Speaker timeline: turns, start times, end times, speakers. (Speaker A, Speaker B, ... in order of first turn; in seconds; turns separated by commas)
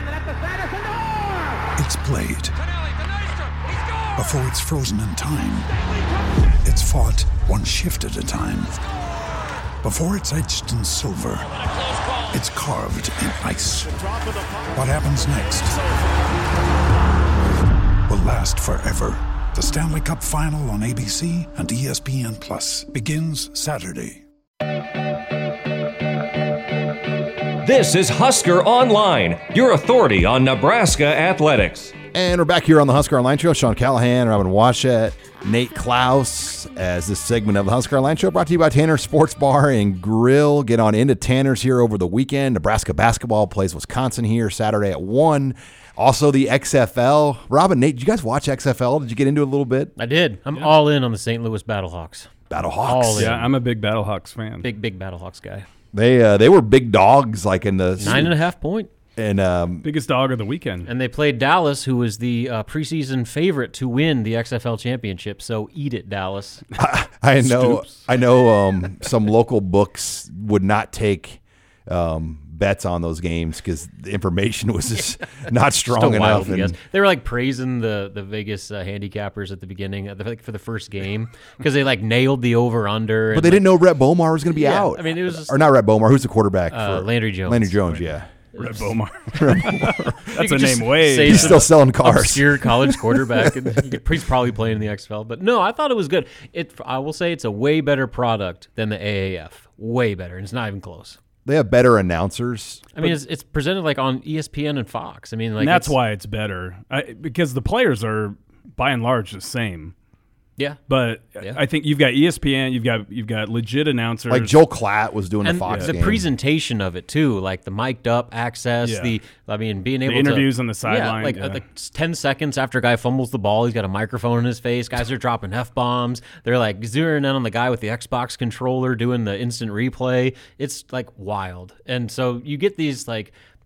Speaker A: 1.8-2.6, Speaker A: 4.1-5.8, Speaker A: 6.6-8.8, Speaker A: 9.8-11.6, Speaker A: 12.3-14.1, Speaker A: 14.7-15.8, Speaker A: 18.1-24.2, Speaker B: 27.6-31.9, Speaker C: 32.1-49.9, Speaker D: 50.0-52.3, Speaker C: 52.5-53.4, Speaker D: 52.8-53.5, Speaker E: 53.2-54.7, Speaker D: 54.6-55.6, Speaker C: 55.9-58.4, Speaker D: 58.0-58.9, Speaker C: 59.2-59.9, Speaker E: 59.8-60.9, Speaker D: 60.9-66.7, Speaker C: 66.8-76.8, Speaker E: 67.4-68.0, Speaker D: 75.8-83.7, Speaker C: 83.3-88.3, Speaker D: 84.5-85.6, Speaker D: 86.7-87.8, Speaker D: 88.5-88.9, Speaker E: 88.6-91.7, Speaker C: 89.4-90.3, Speaker D: 90.3-101.2, Speaker C: 91.2-93.5, Speaker C: 101.5-102.9, Speaker D: 103.0-106.0, Speaker E: 105.6-109.9, Speaker E: 110.9-114.6, Speaker C: 114.3-116.3, Speaker D: 115.4-133.3, Speaker E: 118.8-119.2, Speaker E: 120.1-121.6